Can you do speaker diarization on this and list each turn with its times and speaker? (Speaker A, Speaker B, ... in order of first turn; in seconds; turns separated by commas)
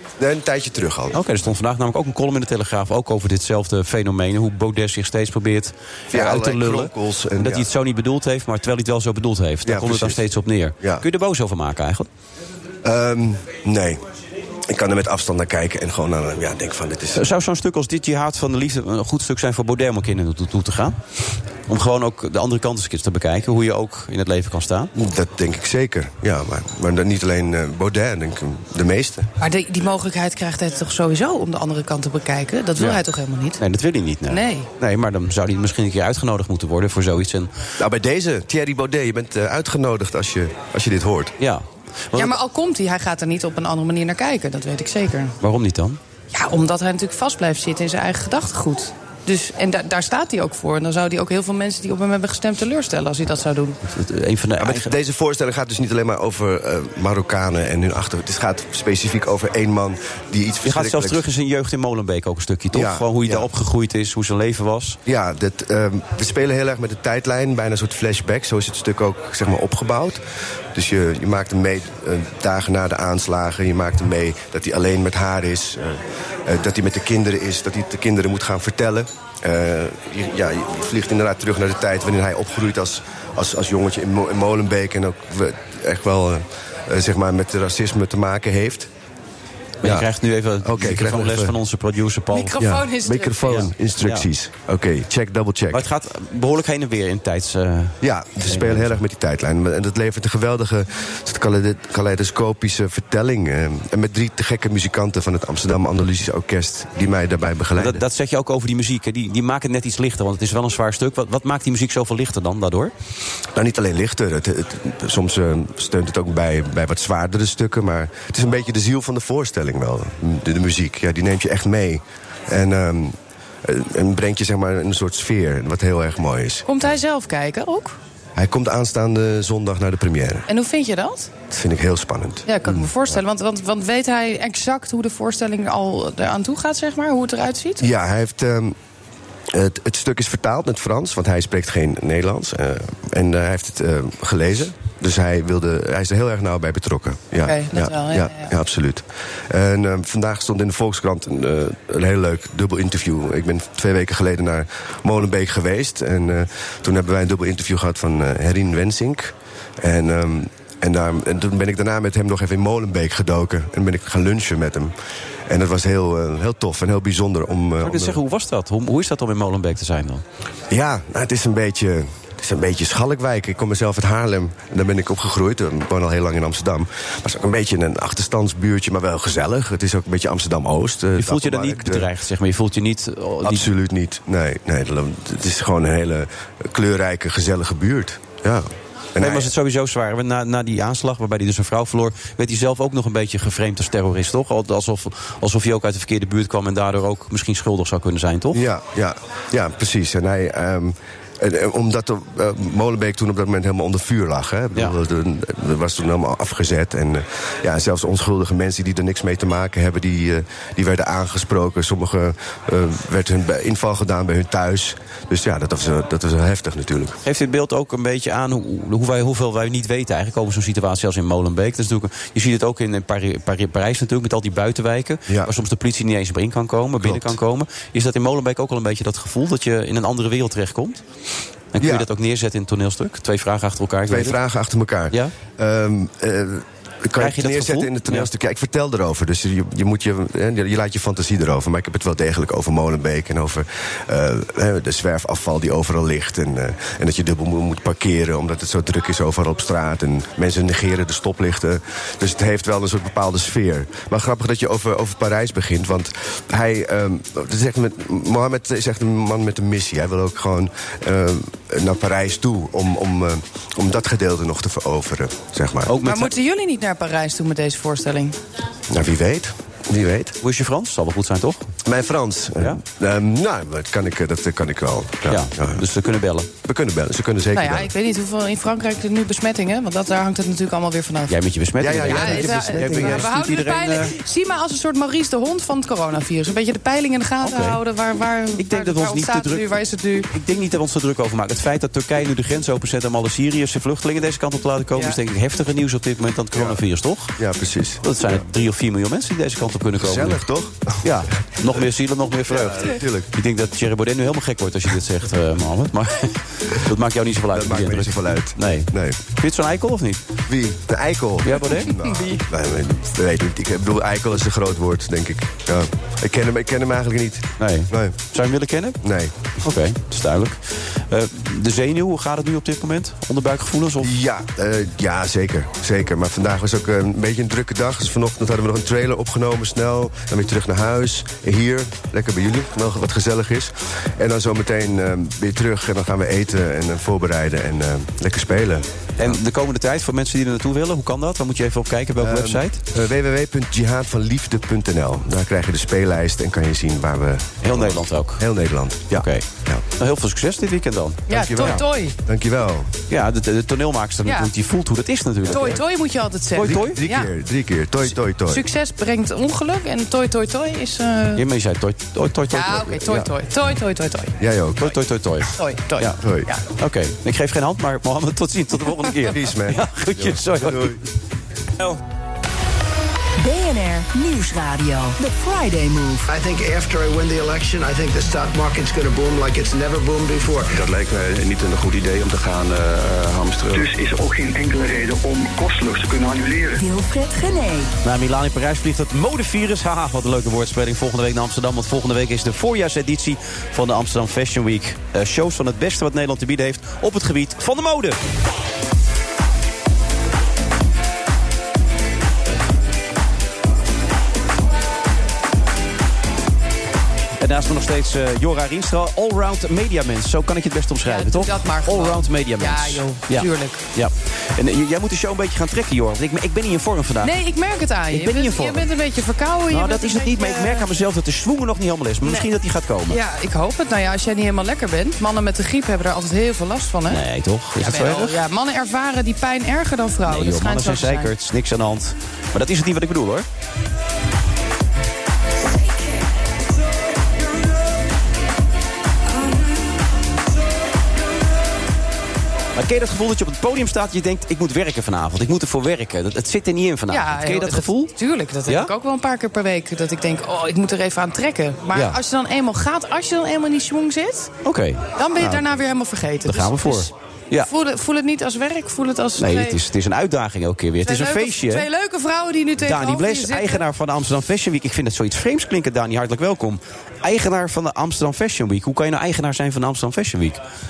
Speaker A: 0.2-1.2, Speaker B: 1.1-12.1, Speaker A: 6.1-7.7, Speaker A: 9.7-10.2, Speaker A: 12.8-14.0, Speaker A: 14.7-17.2, Speaker B: 17.1-21.0, Speaker B: 21.7-24.9, Speaker A: 24.9-29.3, Speaker C: 29.4-33.6, Speaker B: 33.6-37.5, Speaker C: 34.3-34.7, Speaker A: 37.8-41.4, Speaker B: 41.4-42.4, Speaker C: 42.2-45.4, Speaker B: 45.4-46.0, Speaker C: 46.3-53.8, Speaker B: 53.9-54.9, Speaker A: 54.6-61.2, Speaker B: 60.6-65.0, Speaker A: 62.7-63.5, Speaker A: 65.1-70.2, Speaker A: 70.7-88.9, Speaker A: 89.8-90.1, Speaker B: 89.8-92.6, Speaker A: 90.6-91.5, Speaker C: 92.3-93.6, Speaker A: 92.6-95.8, Speaker B: 93.5-94.3, Speaker B: 95.7-99.0, Speaker A: 98.0-108.0, Speaker B: 107.8-112.9, Speaker A: 113.5-126.7, Speaker C: 126.7-128.0, Speaker A: 128.3-130.4, Speaker C: 130.5-131.3, Speaker A: 131.5-132.9, Speaker C: 132.5-137.9, Speaker A: 137.8-138.8, Speaker A: 139.5-164.9, Speaker C: 147.4-148.5, Speaker A: 165.5-168.2, Speaker B: 167.8-170.2, Speaker A: 170.7-182.1, Speaker B: 181.2-183.7, Speaker A: 183.4-189.5, Speaker B: 189.2-198.6, Speaker A: 198.5-217.2, Speaker B: 217.2-231.0, Speaker A: 227.0-227.3, Speaker B: 231.7-234.4, Speaker A: 231.8-232.1, Speaker A: 234.1-265.9, Speaker B: 237.2-238.3, Speaker B: 265.9-266.3, Speaker C: 266.0-268.4, Speaker A: 268.9-270.4, Speaker B: 270.4-271.7, Speaker A: 271.9-275.8, Speaker B: 275.3-276.5, Speaker A: 276.6-277.9, Speaker C: 277.5-281.4, Speaker B: 281.3-284.1, Speaker A: 281.8-283.3, Speaker C: 282.0-290.3, Speaker B: 287.4-287.8, Speaker B: 288.6-289.7, Speaker B: 290.3-297.3, Speaker A: 296.5-296.8, Speaker A: 297.4-298.0, Speaker B: 298.0-300.4, Speaker A: 300.0-301.1, Speaker B: 301.0-310.2, Speaker A: 302.5-303.3, Speaker A: 307.5-309.2, Speaker A: 310.5-318.2, Speaker B: 311.4-311.9, Speaker C: 311.6-312.4, Speaker B: 317.6-319.0, Speaker A: 319.0-319.3, Speaker B: 319.6-324.1, Speaker A: 324.0-339.3, Speaker B: 339.2-342.8, Speaker A: 342.2-349.8, Speaker B: 347.6-348.4, Speaker B: 349.1-349.4, Speaker B: 350.0-351.8, Speaker C: 351.3-352.1, Speaker A: 351.3-352.9, Speaker B: 353.1-355.8, Speaker C: 355.5-357.3, Speaker B: 356.5-357.0, Speaker A: 356.6-358.6, Speaker C: 358.5-361.4, Speaker B: 361.4-363.3, Speaker C: 362.5-364.4, Speaker A: 364.4-364.9, Speaker B: 364.8-366.2, Speaker C: 365.6-366.6, Speaker A: 366.2-366.5, Speaker B: 366.8-371.0, Speaker A: 369.3-371.0, Speaker D: 373.4-376.3, Speaker E: 376.3-380.7, Speaker F: 380.7-383.9, Speaker G: 383.7-386.9, Speaker D: 386.8-387.9, Speaker B: 388.0-398.2, Speaker B: 407.4-417.4, Speaker C: 411.1-413.8, Speaker C: 417.2-420.9, Speaker B: 418.1-418.9, Speaker B: 419.7-423.2, Speaker C: 422.2-422.5, Speaker C: 423.1-427.2, Speaker B: 427.1-428.4, Speaker C: 427.8-431.3, Speaker B: 430.3-433.5, Speaker B: 442.8-448.1, Speaker C: 447.1-454.5, Speaker B: 454.6-455.7, Speaker C: 455.2-459.8, Speaker B: 456.4-457.7, Speaker B: 459.4-461.9, Speaker C: 461.1-463.8, Speaker B: 462.8-470.6